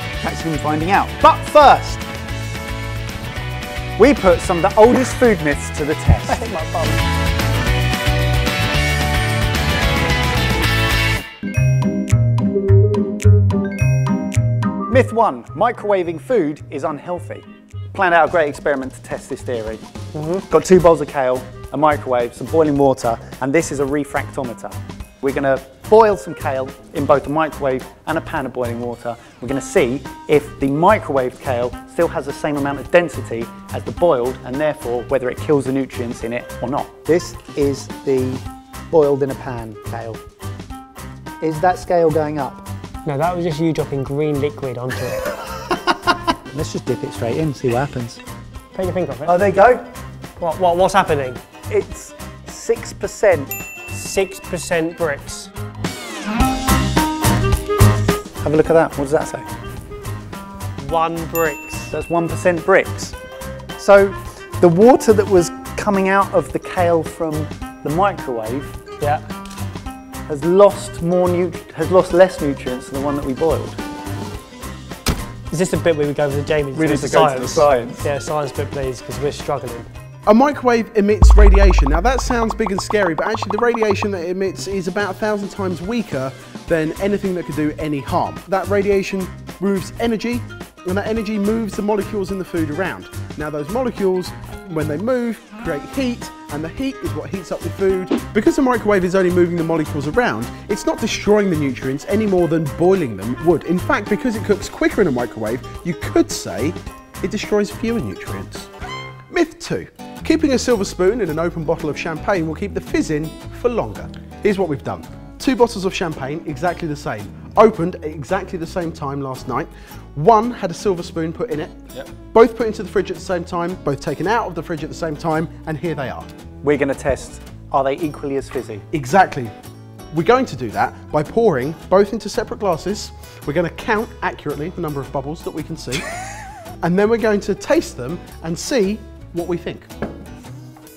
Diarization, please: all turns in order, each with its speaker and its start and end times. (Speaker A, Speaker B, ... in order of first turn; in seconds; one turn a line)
Speaker A: 0.2-2.1
Speaker A: 4.0-6.4
Speaker B: 6.3-7.0
Speaker A: 14.9-19.8
Speaker B: 20.1-20.4
Speaker A: 20.5-40.2
Speaker A: 41.4-42.6
Speaker B: 43.0-45.4
Speaker A: 46.5-48.2
Speaker B: 48.7-49.4
Speaker A: 49.2-49.8
Speaker B: 50.4-51.4
Speaker A: 51.7-53.5
Speaker B: 53.9-55.5
Speaker A: 58.4-59.5
Speaker B: 60.8-61.9
Speaker A: 61.9-63.1
Speaker A: 63.8-68.8
Speaker A: 70.3-73.8
Speaker B: 75.5-79.9
Speaker A: 76.7-78.1
Speaker C: 80.2-108.7
Speaker C: 109.3-126.3
Speaker A: 126.6-128.8
Speaker C: 128.9-129.5
Speaker C: 130.1-136.1
Speaker C: 136.8-139.9